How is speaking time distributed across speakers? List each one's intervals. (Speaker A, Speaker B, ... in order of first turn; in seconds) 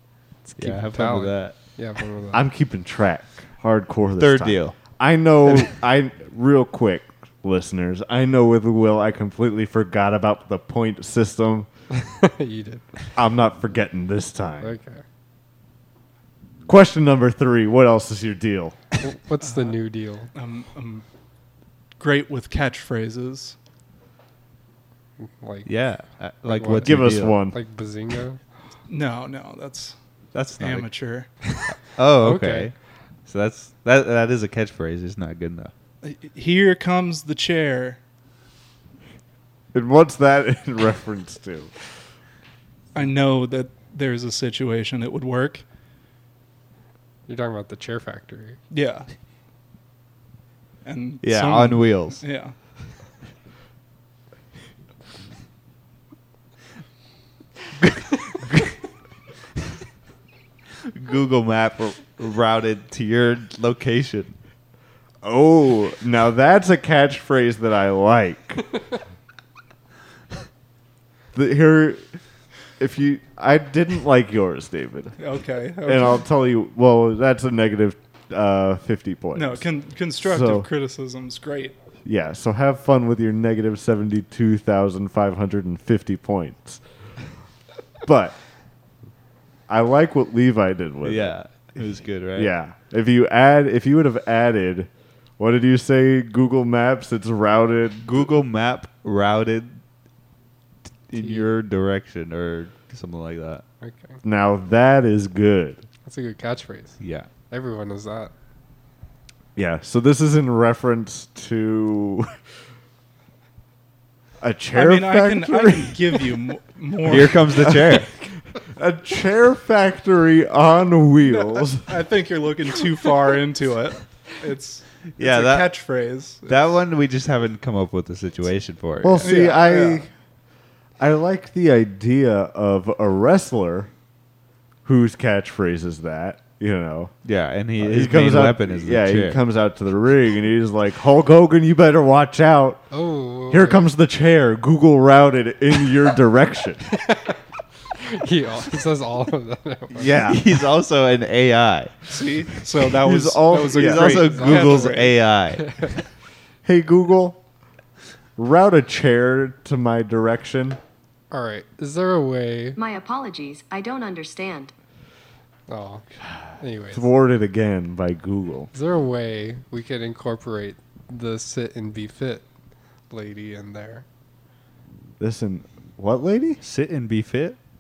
Speaker A: 0.5-2.4, 12.0-13.1, 14.6-15.0, 19.0-20.3, 25.2-25.7, 26.4-28.4, 32.2-32.7, 47.3-48.6, 101.2-101.5, 103.8-104.2, 106.0-108.3, 142.9-143.9, 146.9-147.4, 148.0-150.2, 154.3-154.9, 155.6-155.9, 161.3-162.8, 165.7-166.1, 166.6-167.1, 168.7-172.5, 173.1-174.1
Speaker B: 0.6-1.6, 4.2-4.8, 25.7-27.4, 30.3-30.9, 31.9-32.8, 33.3-35.7, 51.2-52.2, 60.9-64.4, 91.0-92.5, 98.0-99.8, 101.1-103.7, 107.0-107.3, 117.1-118.1, 125.2-125.8, 126.5-129.3, 137.2-139.4, 150.1-152.0, 153.7-155.7, 176.6-177.6
Speaker C: 2.3-11.7, 13.2-14.8, 16.7-18.8, 26.8-27.6, 39.7-41.7, 65.2-68.7, 71.3-72.1, 72.8-75.2, 75.8-79.7, 80.2-80.7, 82.0-86.8, 88.0-88.4, 89.7-91.3, 92.3-98.3, 104.2-105.8, 109.6-112.3, 114.4-116.3, 117.6-118.0, 118.5-121.9, 129.0-130.1, 131.0-133.9, 134.8-137.1, 137.8-142.8, 143.5-146.9, 149.9-150.4, 153.0-154.3, 156.7-157.4, 158.4-160.8, 166.9-168.7, 175.2-176.6
Speaker D: 19.4-19.8, 20.4-21.1, 22.0-23.6, 28.9-31.3, 36.0-38.0, 42.9-45.6, 48.7-49.1, 50.9-52.5, 75.2-76.2, 79.3-81.8, 114.7-117.7, 121.3-126.8, 129.2-130.1, 152.1-155.2
Speaker E: 162.8-164.7